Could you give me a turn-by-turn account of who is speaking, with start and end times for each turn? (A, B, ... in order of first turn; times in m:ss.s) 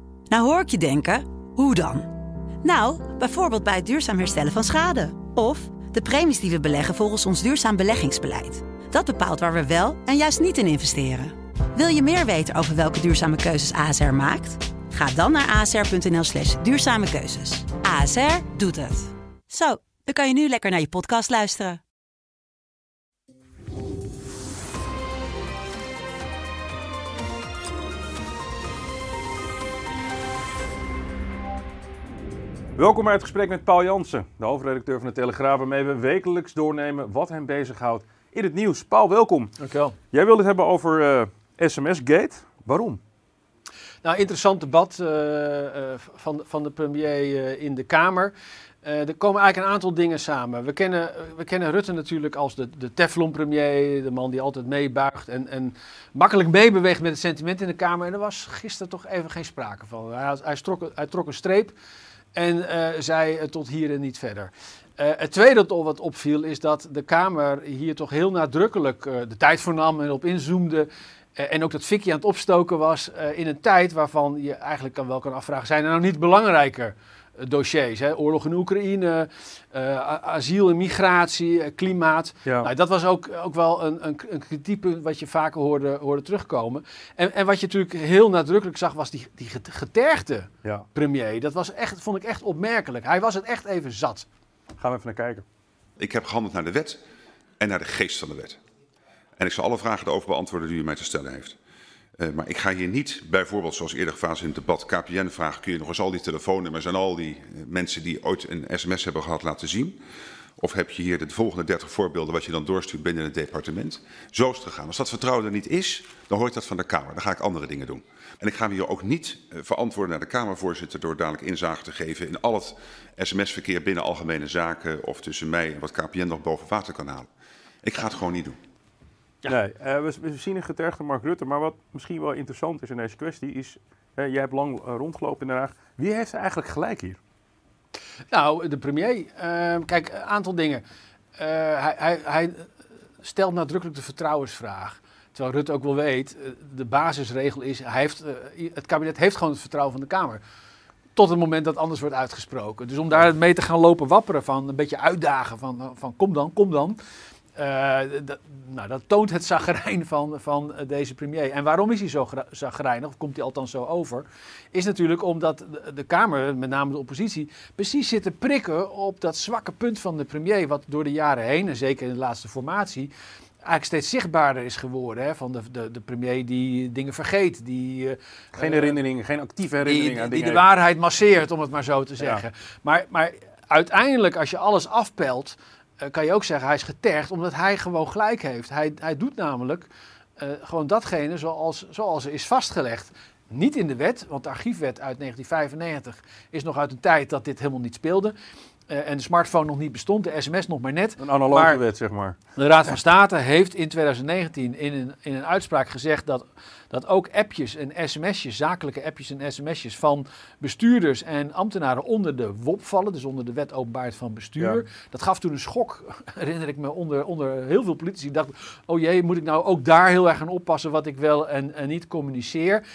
0:00.3-0:02.1 A
0:02.6-0:21.8 A
0:32.8-0:39.5 B
0:39.6-0:40.0 C
0:40.1-0:43.0 B
0:44.0-1:01.7 C
1:02.3-1:34.3 C
1:22.4-1:22.7 B
1:34.8-1:35.4 B
1:36.0-1:37.0 D
1:37.6-1:38.6 D
1:39.4-1:41.6 D
1:42.2-1:50.0 D
1:50.6-2:07.3 D
2:07.8-2:08.6 D
2:09.5-2:17.2 B
2:18.3-2:20.8 C
2:21.4-2:22.7 C
2:23.2-2:30.4 C
2:31.1-2:37.0 C
2:37.5-2:53.1 C
2:53.6-2:59.0 C
2:58.5-3:00.6 B
2:59.8-3:18.3 C
3:18.9-3:21.8 C
3:21.2-3:22.4 B
3:22.6-3:42.8 C